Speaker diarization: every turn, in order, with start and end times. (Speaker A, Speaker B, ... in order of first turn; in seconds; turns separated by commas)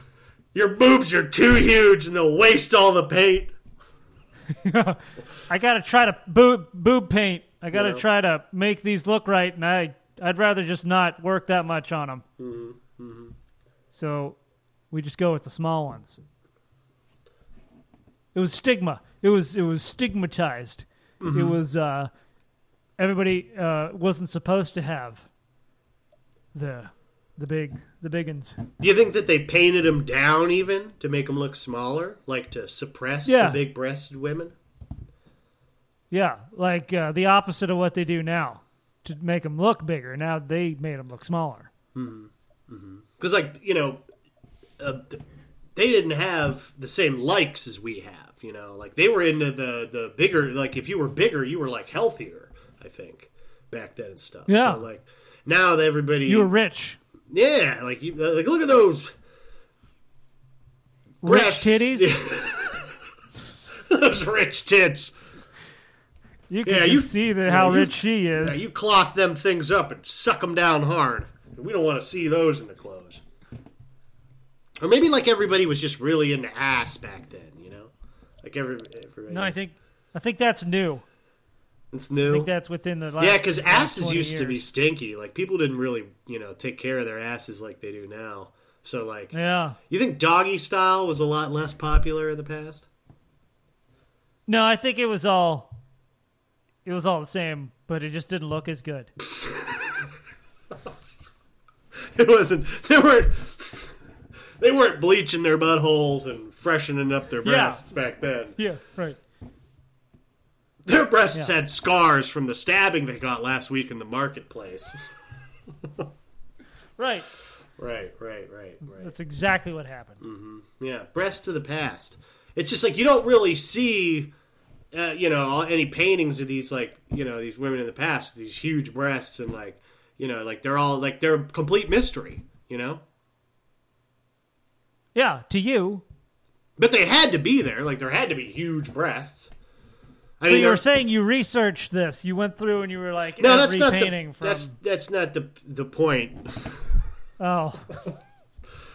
Speaker A: 0.5-3.5, Speaker B: 4.5-12.2, Speaker A: 7.7-8.0, Speaker A: 12.4-13.3, Speaker B: 13.9-14.4, Speaker B: 14.9-16.2, Speaker B: 18.3-22.1, Speaker A: 21.2-21.6, Speaker B: 23.0-25.3, Speaker B: 26.5-28.7, Speaker A: 28.8-34.5, Speaker B: 33.2-33.6, Speaker B: 36.1-41.7, Speaker A: 41.9-44.0, Speaker A: 44.8-45.2, Speaker A: 45.8-56.5, Speaker B: 54.5-54.8, Speaker B: 56.2-57.0, Speaker A: 57.3-59.1, Speaker A: 61.2-62.9, Speaker B: 61.2-62.1, Speaker A: 63.9-65.1, Speaker B: 66.5-68.6, Speaker A: 66.6-73.2, Speaker A: 74.8-77.9, Speaker A: 78.4-79.6, Speaker B: 79.3-81.0, Speaker A: 81.9-82.5, Speaker B: 82.2-84.6, Speaker A: 83.2-89.3, Speaker B: 89.3-89.8, Speaker A: 89.9-92.8, Speaker B: 94.5-95.7, Speaker B: 96.8-99.1, Speaker A: 99.2-100.1, Speaker A: 102.0-103.9, Speaker A: 104.6-108.6, Speaker B: 107.4-107.8, Speaker B: 108.6-109.2, Speaker A: 110.8-114.9, Speaker A: 115.8-116.1, Speaker B: 117.0-117.3, Speaker A: 117.8-119.1, Speaker B: 118.8-120.2, Speaker A: 120.2-124.3, Speaker A: 124.9-133.0, Speaker B: 135.1-136.0, Speaker A: 136.8-139.5, Speaker A: 140.4-140.8, Speaker B: 140.5-144.7, Speaker A: 143.4-146.9, Speaker B: 147.4-148.0